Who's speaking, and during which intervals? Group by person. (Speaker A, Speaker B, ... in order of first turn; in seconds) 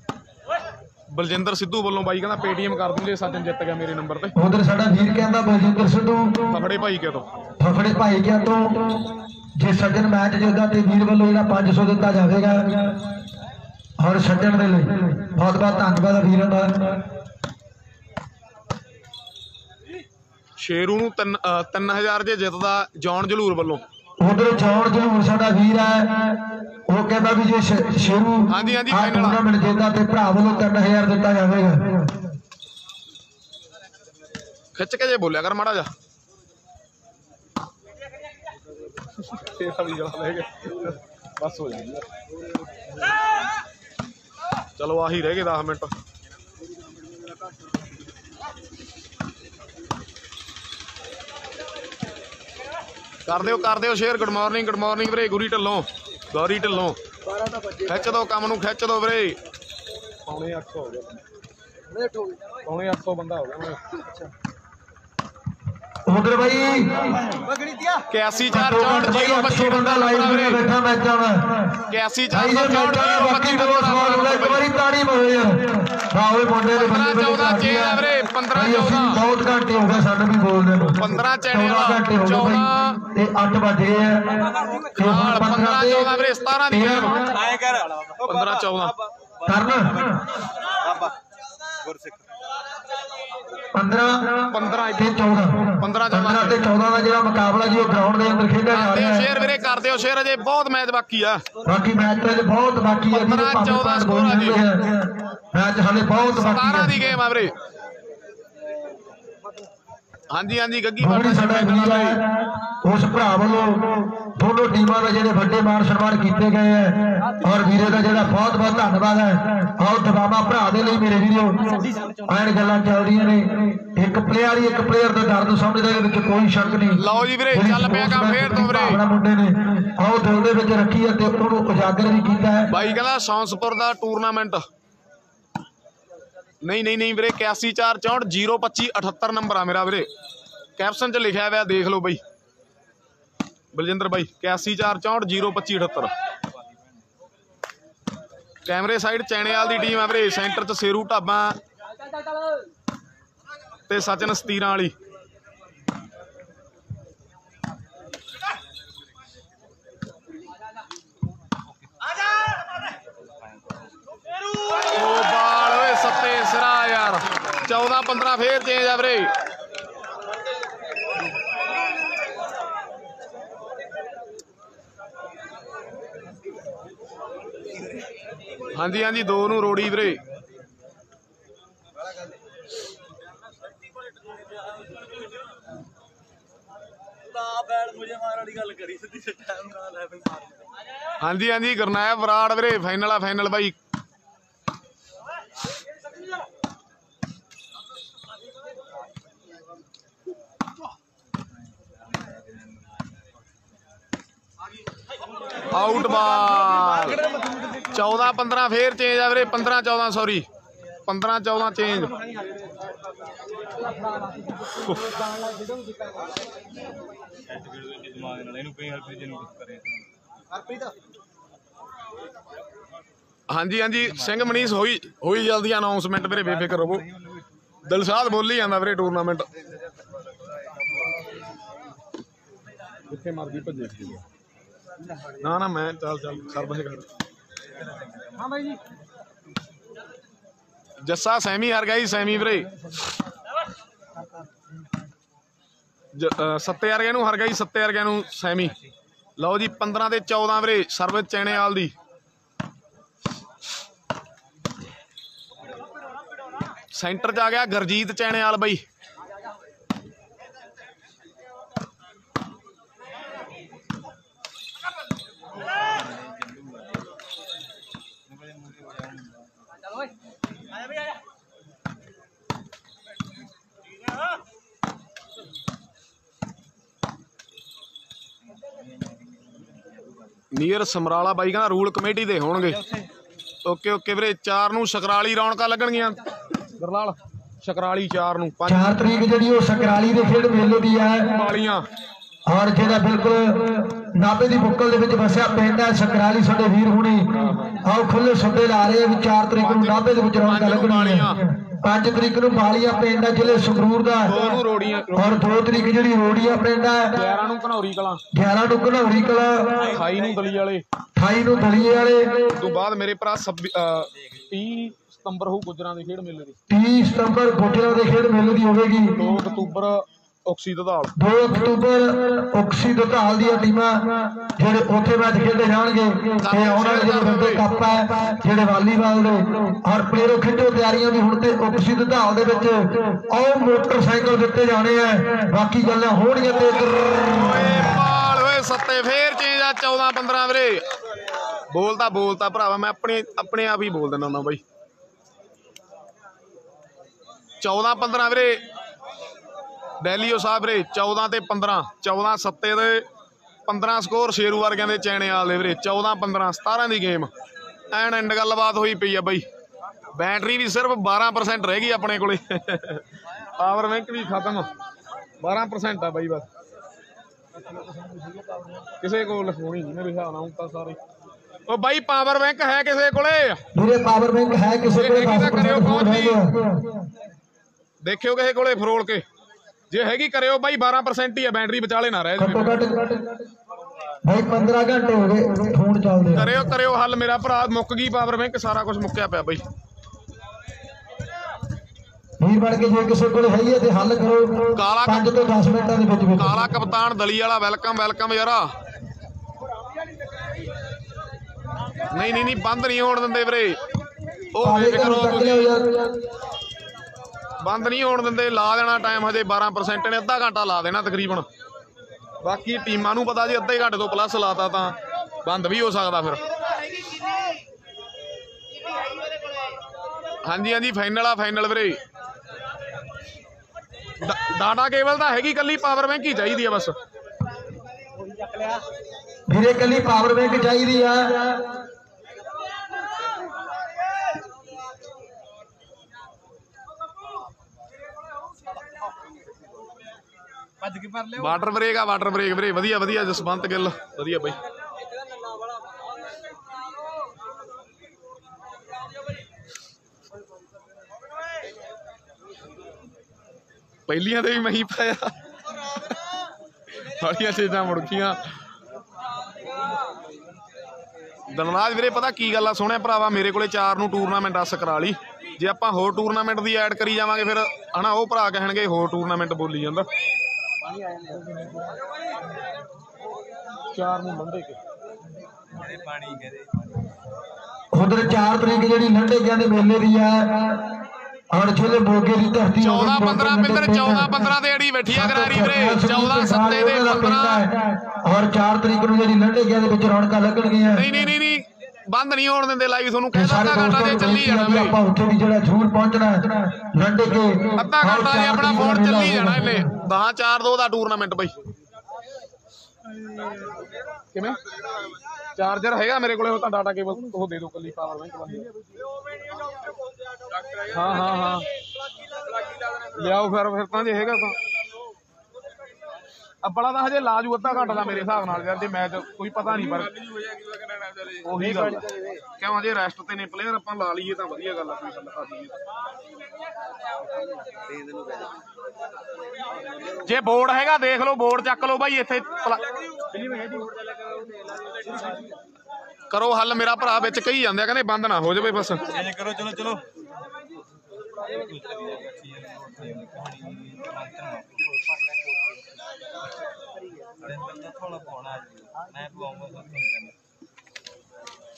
Speaker A: 1.1-4.3, 6.5-7.3, 20.6-23.8, 28.5-29.4, 34.8-35.9, 39.2-42.1, 44.8-45.9, 53.3-57.0, 57.8-59.4, 60.3-61.2, 62.6-63.8, 68.1-70.6, 71.9-74.6, 76.7-79.2, 80.9-83.0, 85.0-87.2, 88.2-88.9, 94.5-95.1, 95.8-96.6, 98.7-101.4, 103.1-104.6, 106.3-107.5, 110.3-112.2, 126.9-129.0, 132.7-134.7, 136.6-140.1, 140.8-142.2, 143.7-146.1, 148.7-151.6, 153.9-154.9, 164.9-169.3, 178.7-180.2, 191.2-193.8, 205.7-207.3, 207.9-210.5, 211.1-212.2, 214.6-215.2, 223.5-227.1, 227.9-229.5, 233.1-234.2, 235.4-237.1, 241.0-242.9, 246.1-248.7, 249.4-251.9, 256.9-258.8, 280.5-282.8, 283.6-286.2, 286.8-289.0, 291.3-291.9, 297.3-297.8, 299.6-301.4, 304.2-305.4, 307.1-308.2, 309.9-310.8, 312.5-316.6, 319.2-321.1, 326.4-327.6, 337.3-340.9, 341.7-344.6, 347.6-348.6, 350.0-353.1, 353.7-357.3, 357.9-359.4, 360.1-363.0, 363.6-364.7, 365.4-366.5, 369.0-371.0, 371.7-373.6, 374.9-376.4, 378.0-379.2, 379.9-382.8, 386.3-389.6, 394.8-395.3, 396.4-398.7, 402.1-403.8, 404.5-405.7, 407.6-411.5, 412.4-416.4, 420.4-422.0, 424.2-427.0, 441.3-444.6, 454.1-455.3, 457.1-458.4, 461.5-470.1, 473.9-474.8, 482.8-487.7, 490.9-495.0, 497.8-501.5, 504.3-504.6, 505.6-508.7, 510.9-511.7, 513.1-514.6, 516.6-525.7, 530.2-532.8, 536.3-539.0
Speaker B: 4.4-6.4, 7.6-9.0, 9.6-13.0, 14.0-17.0, 24.2-32.1, 57.3-57.8, 61.9-62.4, 66.1-67.3, 68.5-86.1, 86.7-87.3, 89.5-89.9, 93.8-99.3, 101.7-107.0, 111.0-127.0, 127.5-132.7, 288.7-291.3, 292.5-304.3, 305.1-307.1, 308.3-309.9, 311.2-312.4, 316.7-319.2, 321.2-337.8, 373.8-376.7, 382.4-383.2, 384.2-386.6, 392.4-396.6, 404.6-406.2, 429.5-431.6, 477.9-480.9, 481.5-484.4, 485.1-491.1, 493.3-499.9
Speaker C: 87.3-90.0, 90.8-91.1, 91.8-92.2, 163.2-163.9, 187.4-190.5, 201.9-203.3, 217.5-220.1, 265.6-267.1, 268.3-269.8, 278.6-280.4, 282.8-283.1, 440.9-441.3, 475.7-477.1, 539.1-540.0, 541.4-545.0, 547.4-550.4